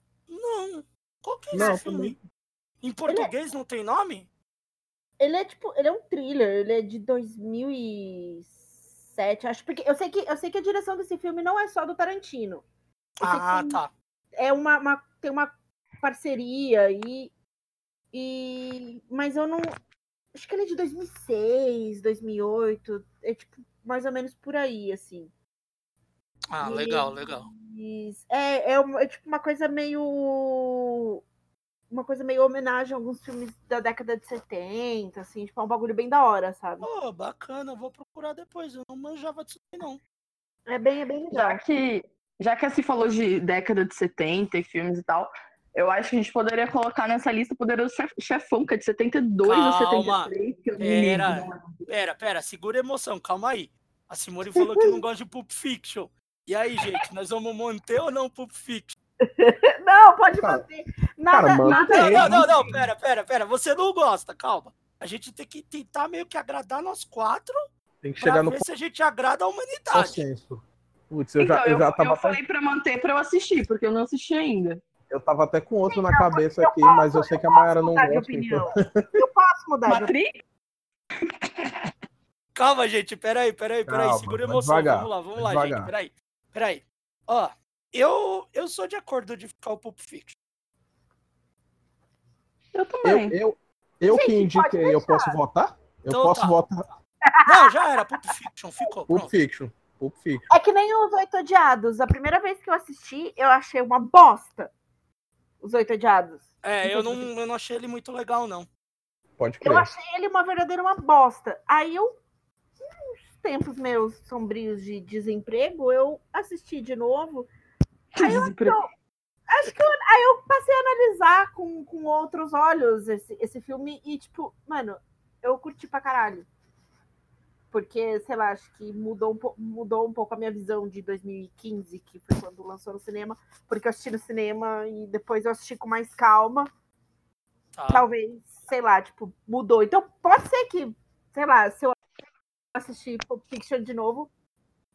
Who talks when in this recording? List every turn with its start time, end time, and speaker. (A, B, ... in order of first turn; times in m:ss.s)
0:00.3-0:02.2 A
0:01.5-0:02.2 B
0:02.8-0:04.3 A
0:05.2-0:08.6 C
0:09.1-0:12.6 C
0:13.2-0:13.8 C
0:13.2-0:13.9 A
0:14.4-0:17.3 C
0:18.1-0:19.7 C
0:20.3-0:25.3 C
0:26.5-0:27.5 A
0:26.6-0:31.2 C
0:31.9-0:36.8 C
0:36.8-0:40.0 A
0:40.7-0:41.6 C
0:41.3-0:51.8 D
0:49.4-0:58.9 A
0:59.2-1:02.7 C
1:01.3-1:02.8 B
1:01.6-1:07.6 A
1:08.0-1:08.6 B
1:08.2-1:10.2 A
1:09.9-1:12.4 B
1:11.4-1:14.8 D
1:15.1-1:19.2 B
1:15.9-1:20.1 C
1:19.9-1:20.3 D
1:21.3-1:21.9 D
1:22.5-1:30.3 A
1:23.9-1:25.9 B
1:32.7-1:33.4 D
1:33.0-1:36.8 B
1:34.1-1:35.4 C
1:36.1-1:36.6 A
1:37.3-1:38.0 C
1:37.4-1:39.3 A
1:39.1-1:40.5 B
1:40.5-1:44.7 C
1:45.6-1:47.3 C
1:46.6-1:48.7 A
1:49.4-1:49.9 B
1:49.6-1:52.2 C
1:52.8-1:57.5 C
1:58.1-1:58.8 D
1:58.2-1:58.9 C
1:59.5-2:06.5 C
2:07.7-2:16.7 C
2:17.7-2:18.1 A
2:17.9-2:22.0 C
2:22.7-2:24.3 C